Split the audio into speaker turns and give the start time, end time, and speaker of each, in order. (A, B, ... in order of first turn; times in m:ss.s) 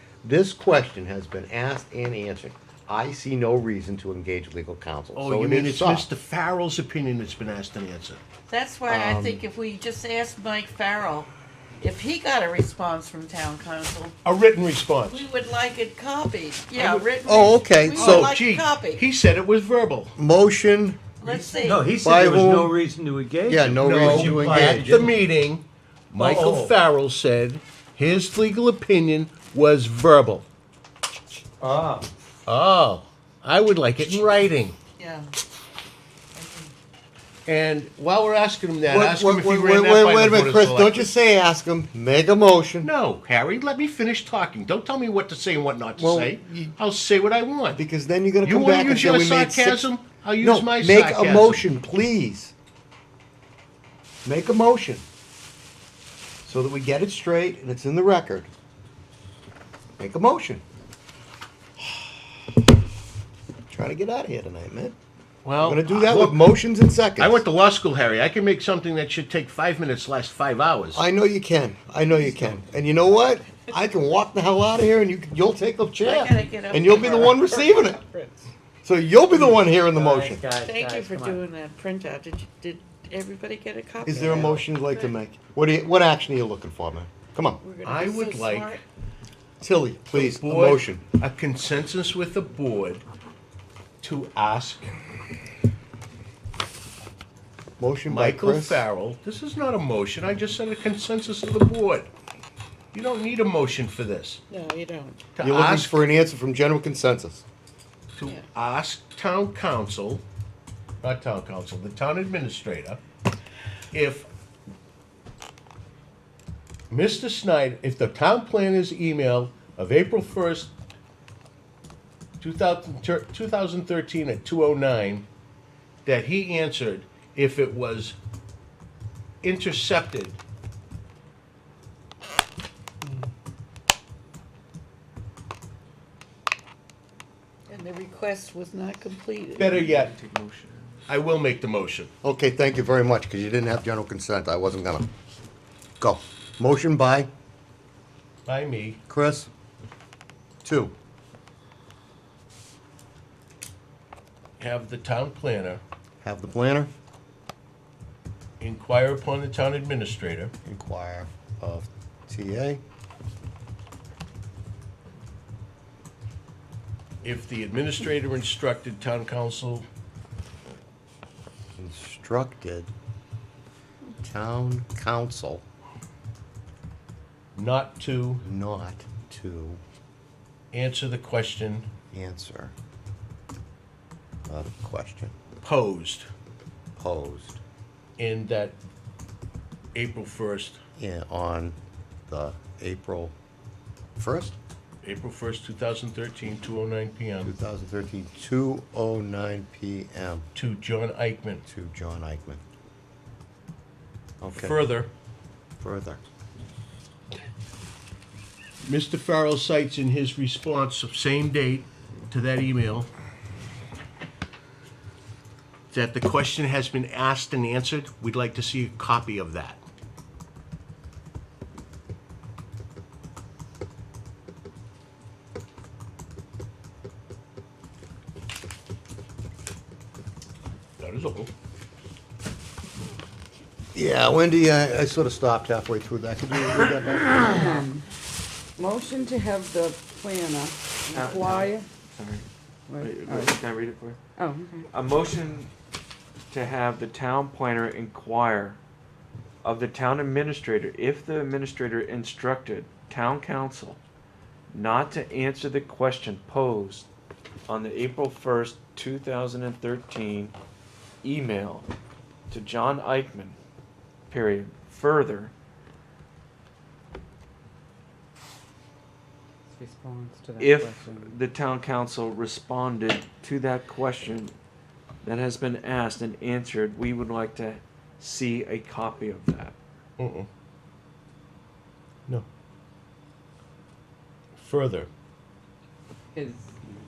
0:00.2-0:06.1 A
0:05.2-0:08.2 B
0:08.5-0:14.2 C
0:08.9-0:09.4 A
0:14.2-0:15.3 B
0:15.1-0:19.0 C
0:17.2-0:18.3 A
0:18.0-0:20.2 B
0:20.2-0:21.0 A
0:21.2-0:21.9 C
0:21.6-0:25.2 D
0:21.9-0:22.8 A
0:23.5-0:25.1 A
0:23.8-0:30.5 B
0:26.2-0:26.7 D
0:31.6-0:32.0 D
0:32.5-0:34.8 B
0:35.0-0:35.3 C
0:36.4-0:36.7 C
0:37.5-0:41.1 B
0:38.9-0:42.9 A
0:42.8-0:47.8 B
0:46.0-0:46.8 A
0:47.8-0:52.5 A
0:48.4-0:51.7 B
0:54.2-0:55.0 A
0:56.4-0:58.5 A
1:00.0-1:00.6 A
1:03.7-1:05.0 A
1:05.4-1:06.5 B
1:05.6-1:07.4 A
1:07.2-1:11.0 B
1:10.9-1:18.0 A
1:16.0-1:18.5 C
1:18.8-1:20.4 A
1:19.9-1:21.4 D
1:20.5-1:25.1 C
1:24.0-1:27.6 A
1:27.6-1:28.8 C
1:27.8-1:28.8 B
1:29.6-1:31.0 A
1:30.1-1:33.1 B
1:34.0-1:35.0 B
1:37.8-1:38.8 A
1:38.1-1:42.1 B
1:42.9-1:44.4 B
1:44.5-1:45.2 C
1:45.3-1:46.0 B
1:45.4-1:47.4 A
1:48.2-1:50.2 B
1:51.0-1:53.0 B
1:53.9-1:54.3 B
1:56.9-2:00.7 B
2:02.4-2:05.3 B
2:06.0-2:08.2 B
2:09.4-2:10.4 B
2:17.7-2:19.7 C
2:19.6-2:20.1 B
2:19.6-2:21.0 E
2:21.1-2:22.1 B
2:22.2-2:25.1 A
2:26.0-2:27.3 A
2:28.5-2:29.0 B
2:29.1-2:29.5 A
2:30.6-2:30.9 A
2:34.6-2:35.8 B
2:36.2-2:36.9 A
2:38.6-2:40.5 B
2:40.6-2:42.8 A
2:47.2-2:49.9 B
2:51.8-2:52.9 A
2:54.2-2:55.6 A
2:57.6-2:58.4 B
2:58.4-2:59.8 A
3:00.7-3:01.9 B
3:02.1-3:02.7 A
3:04.5-3:05.4 A
3:05.6-3:06.3 B
3:07.0-3:07.6 A
3:08.2-3:08.8 B
3:09.9-3:10.8 B
3:11.0-3:13.4 A
3:14.2-3:14.6 A
3:15.0-3:17.5 B
3:17.4-3:20.5 A
3:20.6-3:21.6 B
3:21.7-3:22.6 A
3:24.4-3:24.8 A
3:24.5-3:25.1 B
3:25.8-3:26.2 A
3:28.8-3:33.1 B
3:35.9-3:39.8 B
3:51.0-3:51.5 B
3:53.9-3:57.8 A
3:57.4-3:58.1 F
3:58.8-4:01.9 F
4:01.1-4:02.4 E
4:02.9-4:03.6 F
4:03.0-4:04.2 E
4:04.4-4:04.9 F
4:04.9-4:05.7 E
4:06.5-4:08.8 E
4:09.6-4:14.0 E
4:14.7-4:17.1 E
4:17.7-4:20.5 E
4:21.2-4:21.9 E
4:22.5-4:23.6 E
4:24.3-4:25.5 E
4:29.7-4:31.4 F
4:30.6-4:34.5 E
4:35.2-4:39.8 E
4:40.2-4:40.5 B
4:44.6-4:45.1 B
4:46.4-4:46.8 F